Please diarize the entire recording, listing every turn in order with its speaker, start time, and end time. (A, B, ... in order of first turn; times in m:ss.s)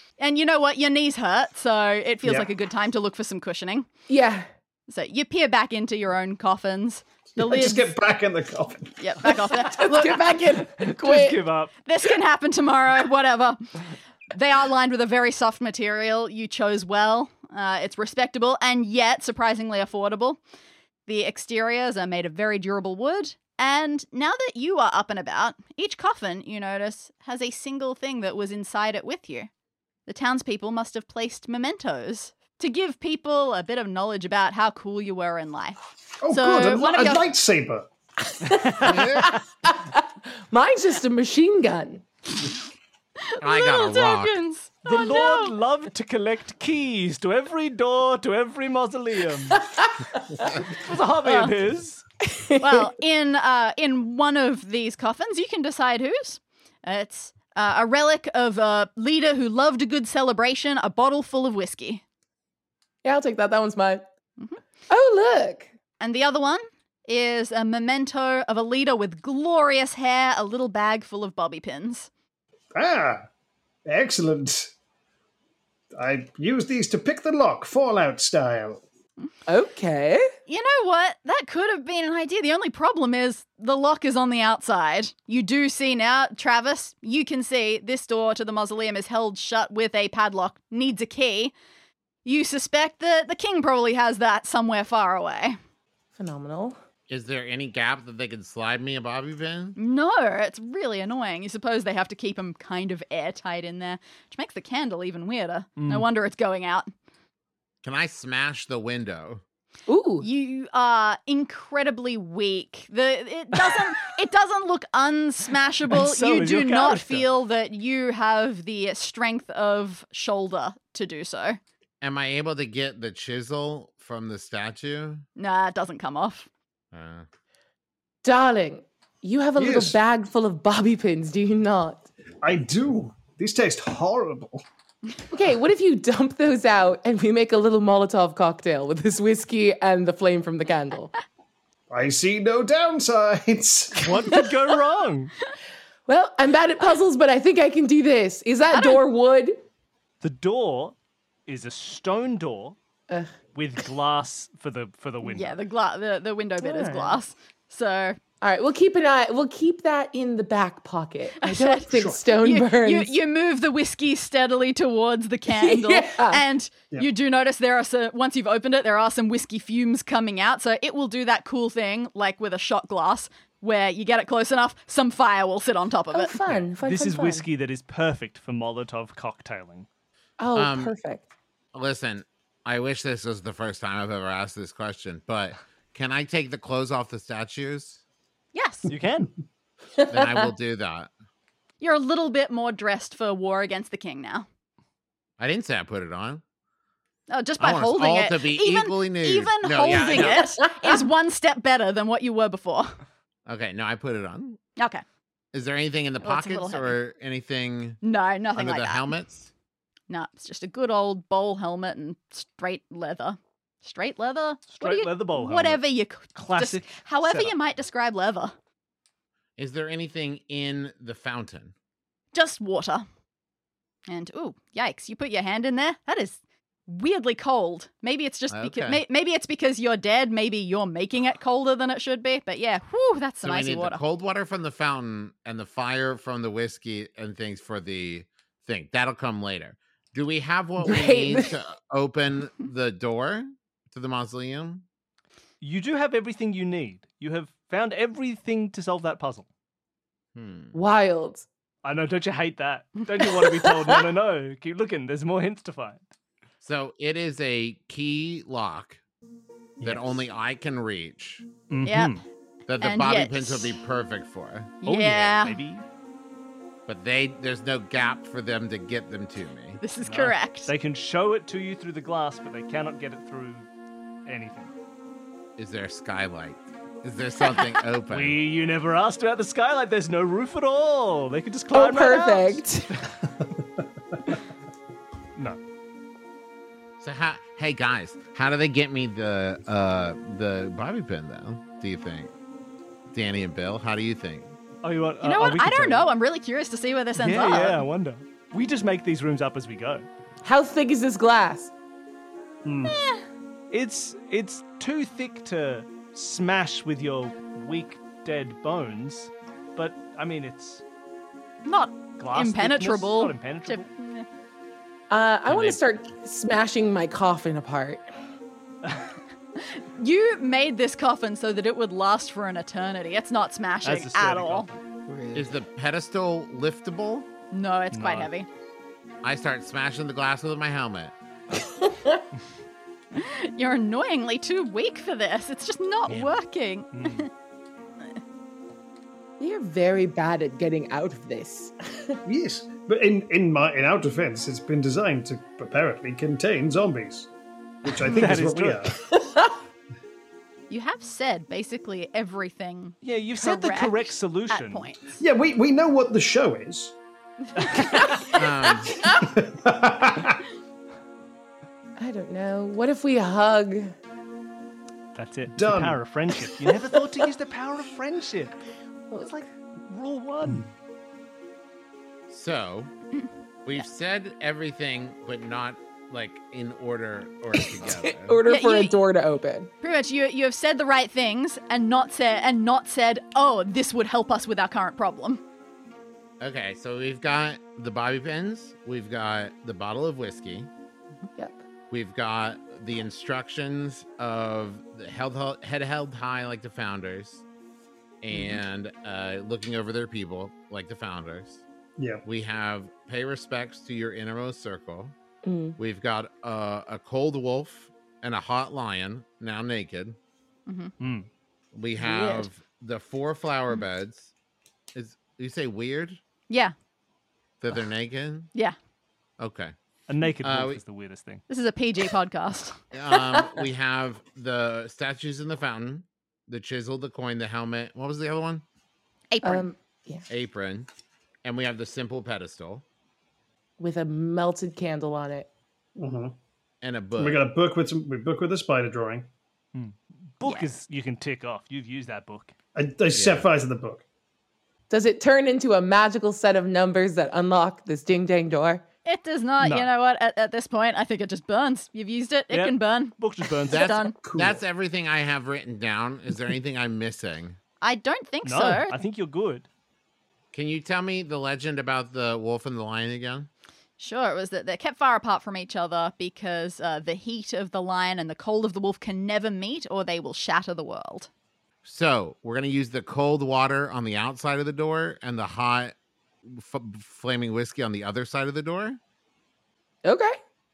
0:00.2-0:03.9 A
0:04.1-0:04.5 B
0:04.9-0:07.9 A
0:07.4-0:08.9 C
0:09.0-0:10.5 A
0:09.4-0:11.4 B
0:10.5-0:11.7 D
0:11.8-0:13.7 A
0:14.3-0:20.4 A
0:21.1-0:29.5 A
0:30.1-0:35.8 A
0:36.2-0:37.9 C
0:36.3-0:37.3 A
0:38.3-0:42.0 B
0:38.8-0:39.4 E
0:43.3-0:45.5 A
0:43.4-0:44.4 E
0:44.8-0:49.7 D
0:49.6-0:50.4 B
0:50.6-0:52.0 D
0:51.2-0:51.5 A
0:52.2-0:52.9 B
0:52.6-1:02.0 A
1:03.0-1:04.0 B
1:04.9-1:05.7 B
1:06.0-1:12.1 A
1:12.8-1:13.3 C
1:13.9-1:14.7 C
1:16.0-1:18.8 C
1:19.5-1:20.3 B
1:20.5-1:31.5 A
1:32.2-1:35.6 A
1:36.2-1:36.8 B
1:37.1-1:39.8 E
1:39.8-1:46.9 A
1:45.8-1:46.1 D
1:47.8-1:49.4 E
1:49.9-1:50.3 B
1:50.2-2:01.6 A
1:55.9-1:57.3 D
2:02.0-2:05.2 E
2:05.4-2:06.5 A
2:06.9-2:07.3 E
2:08.2-2:12.1 B
2:09.6-2:10.0 C
2:12.4-2:14.6 C
2:15.3-2:21.1 B
2:21.9-2:24.1 C
2:24.0-2:25.3 D
2:26.1-2:29.6 B
2:28.7-2:29.0 A
2:30.2-2:31.0 D
2:31.5-2:32.8 D
2:33.6-2:35.6 D
2:35.2-2:38.2 A
2:36.6-2:37.2 B
2:38.4-2:43.2 B
2:41.4-2:56.4 A
2:41.9-2:42.2 C
2:45.5-2:46.4 B
2:56.1-2:57.5 B
2:56.5-2:59.9 D
3:00.4-3:01.3 B
3:00.6-3:00.9 E
3:01.7-3:08.0 E
3:08.5-3:08.9 A
3:08.9-3:09.3 D
3:10.0-3:10.5 B
3:10.1-3:11.1 E
3:11.8-3:14.5 A
3:15.4-3:16.4 E
3:17.3-3:23.0 A
3:17.6-3:20.6 E
3:20.0-3:21.1 B
3:23.5-3:24.6 E
3:24.8-3:25.0 A
3:25.5-3:28.0 E
3:26.2-3:27.0 A
3:28.0-3:29.1 A
3:28.6-3:29.5 E
3:30.1-3:38.6 A
3:34.7-3:37.5 D
3:39.6-3:41.7 E
3:42.3-3:43.0 A
3:44.1-3:54.0 A
3:48.5-3:49.0 E
3:53.4-4:04.8 E
4:00.8-4:01.6 B
4:05.6-4:09.5 D
4:10.4-4:10.8 E
4:10.7-4:11.5 B
4:11.8-4:16.0 D
4:13.5-4:14.0 B
4:16.6-4:19.0 E
4:19.8-4:20.1 C
4:19.8-4:21.5 E
4:21.7-4:22.2 D
4:21.8-4:22.2 A
4:22.7-4:24.8 E
4:22.8-4:23.8 A
4:24.8-4:25.6 A
4:24.8-4:25.8 D
4:26.9-4:29.8 E
4:29.8-4:30.7 A
4:30.0-4:33.7 D
4:34.3-4:34.7 D
4:35.6-4:38.4 E
4:38.1-4:43.2 D
4:41.7-4:42.9 B
4:47.0-4:52.3 E
4:53.1-4:54.6 E
4:54.8-4:56.1 D
4:55.2-4:57.8 A
4:57.2-5:00.0 D
5:00.4-5:01.7 B
5:02.7-5:02.9 D
5:02.9-5:03.2 A
5:03.7-5:10.8 D
5:11.6-5:14.3 A
5:12.2-5:13.9 D
5:15.1-5:18.0 B
5:15.5-5:15.8 E
5:19.7-5:24.7 A
5:23.8-5:24.8 D
5:25.1-5:25.6 B
5:25.3-5:27.3 E
5:27.5-5:28.5 A
5:27.9-5:28.3 D
5:29.2-5:31.1 E
5:31.6-5:32.2 B
5:33.1-5:37.3 A
5:36.1-5:36.3 E
5:36.9-5:37.3 D
5:39.4-5:42.2 B
5:42.3-5:47.3 C
5:47.8-5:49.0 C
5:47.9-5:49.0 D
5:49.1-5:49.6 B
5:50.7-5:55.2 A
5:53.0-5:54.9 D
5:55.2-5:57.0 C
5:57.6-5:58.1 D
5:57.6-5:58.1 A
5:58.3-5:59.0 E
5:59.0-6:00.4 C
6:02.0-6:03.9 B
6:05.2-6:08.6 D
6:05.6-6:06.0 C
6:09.1-6:09.5 B
6:09.9-6:10.7 D
6:12.3-6:12.9 E
6:13.7-6:18.4 E
6:17.6-6:19.7 B
6:18.5-6:19.0 A
6:19.8-6:25.4 A
6:26.4-6:30.7 E
6:31.4-6:31.6 B
6:31.9-6:37.4 E
6:38.2-6:41.6 E
6:42.0-6:42.2 C
6:42.2-6:45.2 E
6:45.4-6:45.8 B
6:45.8-6:50.2 E
6:50.7-6:50.9 A
6:51.0-6:51.3 D
6:51.7-6:54.3 E
6:52.0-6:52.4 A
6:54.9-6:56.2 E
6:57.6-6:58.5 E
6:59.4-6:59.7 E
7:00.1-7:01.4 D
7:00.4-7:00.8 E
7:01.5-7:02.8 A
7:02.9-7:08.6 E
7:09.3-7:09.7 A
7:09.4-7:10.2 B
7:10.3-7:10.9 E
7:11.4-7:12.8 E
7:13.8-7:15.5 B
7:16.0-7:16.4 C
7:16.8-7:17.4 E
7:17.2-7:19.3 C
7:19.7-7:22.6 D
7:20.4-7:20.7 A
7:22.8-7:24.0 C
7:23.1-7:23.5 E
7:24.9-7:28.8 B
7:29.0-7:34.2 A
7:32.5-7:34.0 D
7:33.7-7:37.6 E
7:34.2-7:34.6 C
7:37.8-7:39.0 A
7:38.4-7:39.7 D
7:40.5-7:43.5 E
7:44.0-7:51.3 A
7:51.8-7:55.9 E
7:56.4-7:59.0 E
8:00.0-8:00.4 B